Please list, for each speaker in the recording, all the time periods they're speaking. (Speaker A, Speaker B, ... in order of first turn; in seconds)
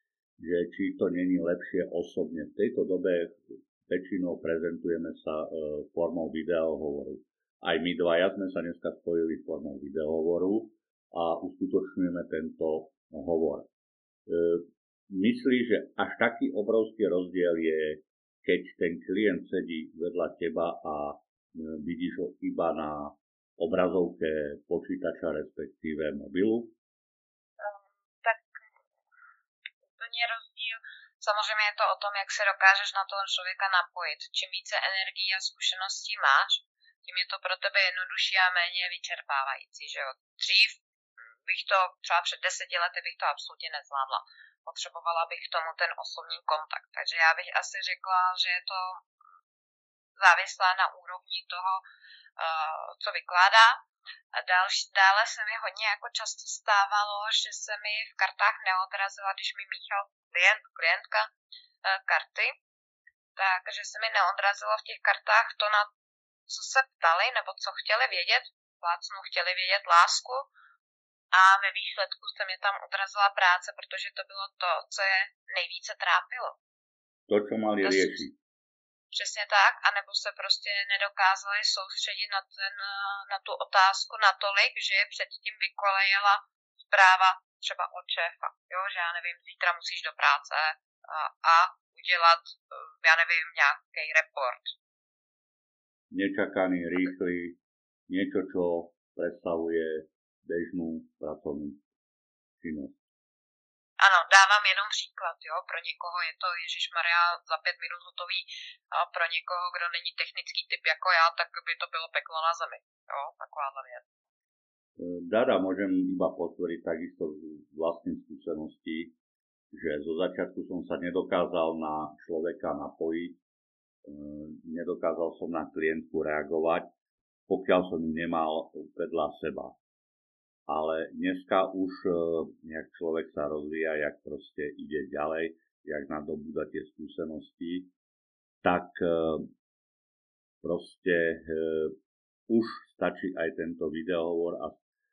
Speaker A: 0.4-13.7, 14.3-26.7, 77.3-78.4, 96.1-101.8, 102.6-103.0, 115.0-119.2, 119.7-123.4, 124.0-126.9, 127.5-129.8, 130.7-137.9, 138.6-139.5, 140.6-141.9, 142.5-144.8
Speaker B: 27.6-28.6, 29.9-40.8, 41.5-49.0, 50.2-51.8, 52.4-53.8, 54.4-61.3, 61.9-62.5, 63.4-65.9, 66.5-70.5, 71.3-76.6, 77.8-78.2, 79.1-94.7, 104.0-114.1